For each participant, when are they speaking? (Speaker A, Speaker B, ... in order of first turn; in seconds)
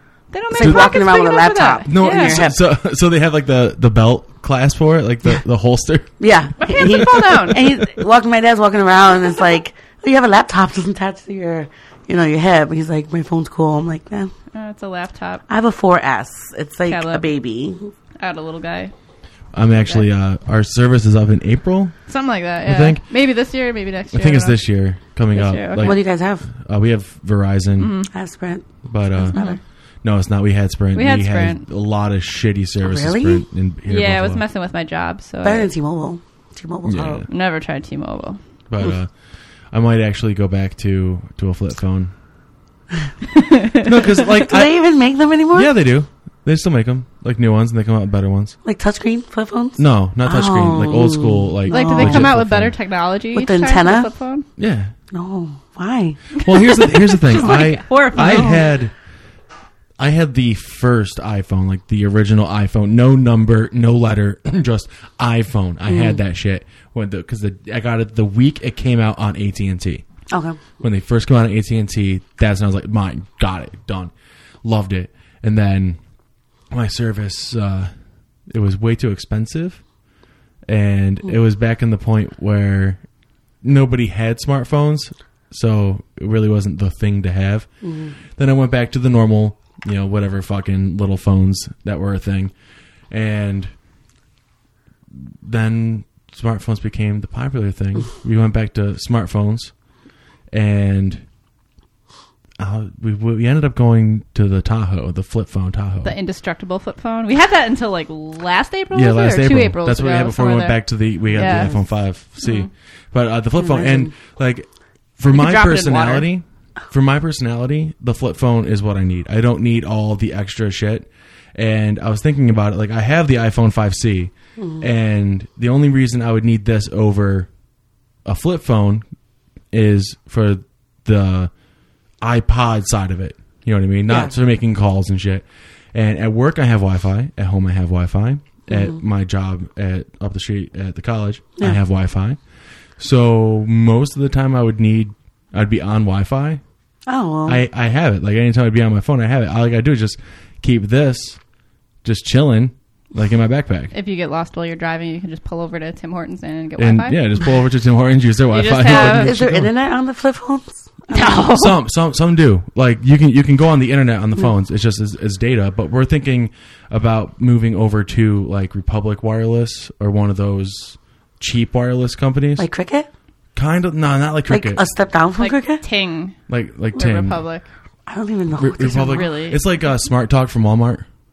Speaker A: 0.3-2.4, 6.6-7.7, 14.5-15.4, 16.9-17.2, 18.2-18.9, 22.1-24.6, 25.3-26.0, 27.8-28.1, 29.3-29.6, 30.9-31.6, 33.9-35.7, 37.3-38.4, 43.3-43.8, 51.7-54.5, 56.3-58.7, 106.0-111.7, 112.4-112.7, 115.3-116.3, 153.9-157.2, 158.5-159.3, 161.1-161.8, 175.4-176.4, 176.9-177.7, 179.1-179.6
Speaker B: 0.5-2.6, 6.2-14.3, 15.5-17.9, 25.8-26.5, 28.1-29.6, 32.8-33.4, 35.4-37.3, 43.9-45.7, 48.6-52.3, 53.3-54.1, 55.1-56.4, 58.1-58.5, 65.8-66.2, 70.3-70.6, 87.8-88.1, 111.5-111.7, 113.5-114.1, 124.6-124.9, 134.1-134.3, 138.7-139.0, 147.1-147.6, 158.9-161.5, 172.6-173.1, 174.5-175.8, 178.1-179.3
Speaker C: 0.6-0.9, 1.9-6.2, 6.8-7.1, 19.5-21.9, 22.6-23.0, 24.1-27.9, 28.9-29.4, 30.0-34.4, 36.8-37.3, 38.7-39.1, 39.7-42.1, 43.8-44.7, 45.5-48.5, 49.8-52.7, 54.6-54.9, 56.4-58.9, 60.0-70.0, 70.8-74.1, 74.6-76.0, 76.7-77.9, 78.5-79.8, 80.7-83.0, 83.6-87.7, 88.3-92.5, 93.1-93.7, 95.2-99.7, 100.5-101.2, 102.6-106.1, 108.9-127.5, 128.2-129.0, 129.7-131.5, 132.2-142.4, 143.0-146.6, 147.4-151.4, 152.0-153.9, 156.8-159.7, 161.5-172.7, 173.5-174.8, 176.5-177.4, 178.6-181.1